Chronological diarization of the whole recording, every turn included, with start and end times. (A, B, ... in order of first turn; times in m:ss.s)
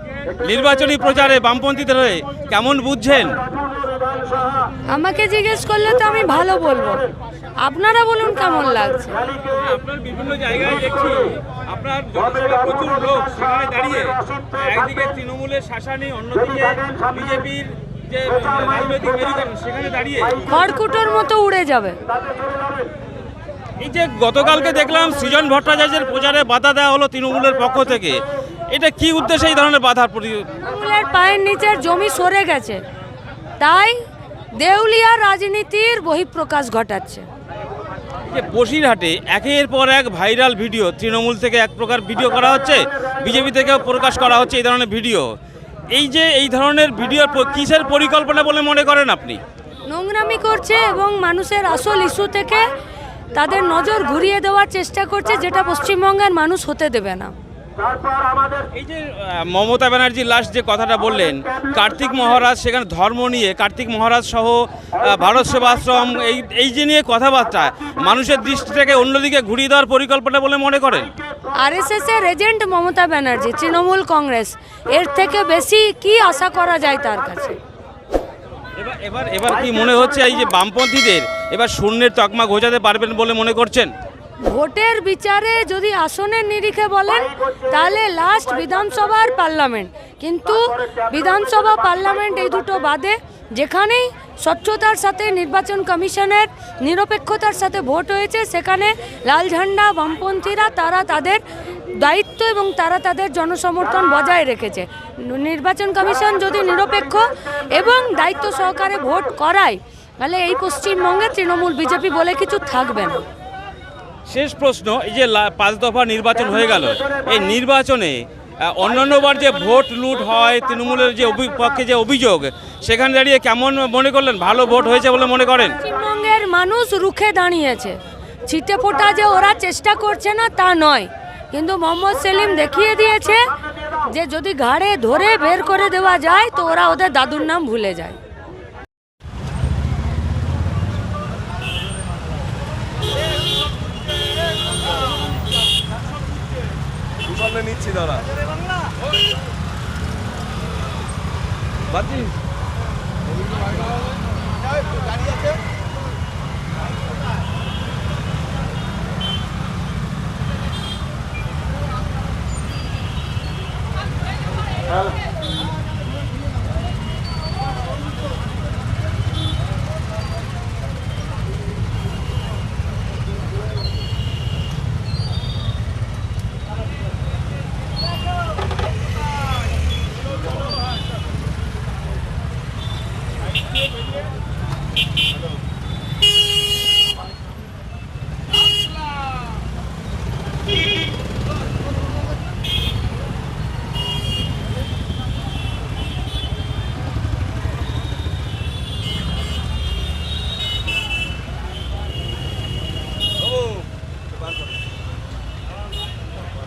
0:00.4-0:03.4 A
0:04.9-0:07.0 B
0:07.6-0:09.2 B
0:09.4-0:20.4 A
0:20.5-0:22.0 B
0:23.8-0:30.5 A
0:30.6-0:32.8 B
0:33.6-0:34.0 B
0:34.6-0:37.2 B
0:38.3-0:45.3 A
0:45.9-0:49.4 A
0:49.9-0:52.6 B
0:53.3-0:57.3 B
0:58.7-1:11.1 A
1:11.6-1:17.6 B
1:18.8-1:23.9 A
1:24.4-1:41.4 B
1:41.9-1:53.2 B
1:54.3-2:05.8 A
2:05.8-2:18.2 B
2:27.6-2:28.2 A
2:31.9-2:32.3 A